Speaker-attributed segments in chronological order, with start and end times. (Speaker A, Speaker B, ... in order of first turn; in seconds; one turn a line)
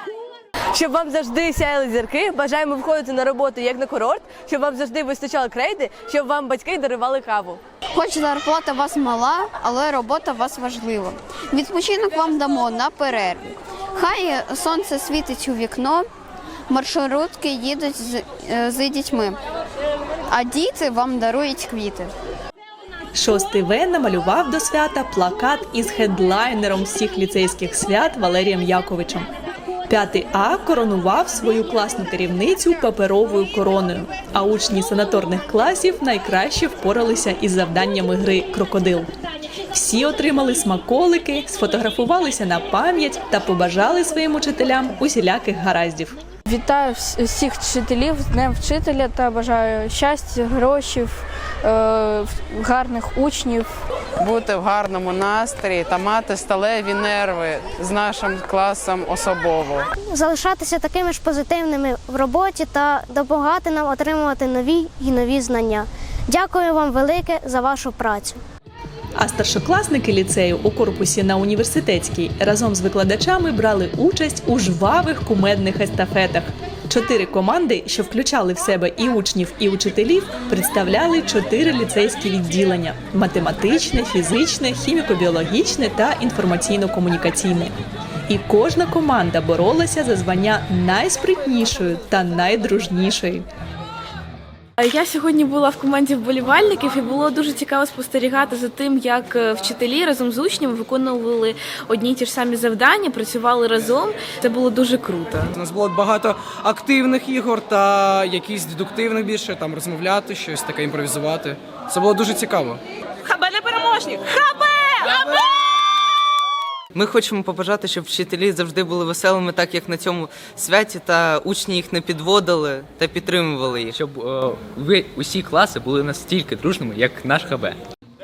Speaker A: 0.7-7.6
Speaker B: 7.9-16.1
Speaker B: 16.7-19.4
Speaker B: 20.3-22.1
Speaker C: 23.1-29.3
Speaker C: 29.9-39.1
Speaker C: 39.7-46.2
Speaker D: 46.5-53.7
Speaker E: 54.2-59.9
Speaker F: 60.0-68.4
Speaker C: 69.2-87.7
Speaker C: 88.3-93.5
Speaker G: 94.8-105.5
Speaker H: 105.6-112.8
Speaker G: 113.3-115.2
Speaker I: 116.9-124.0
Speaker J: 124.0-127.8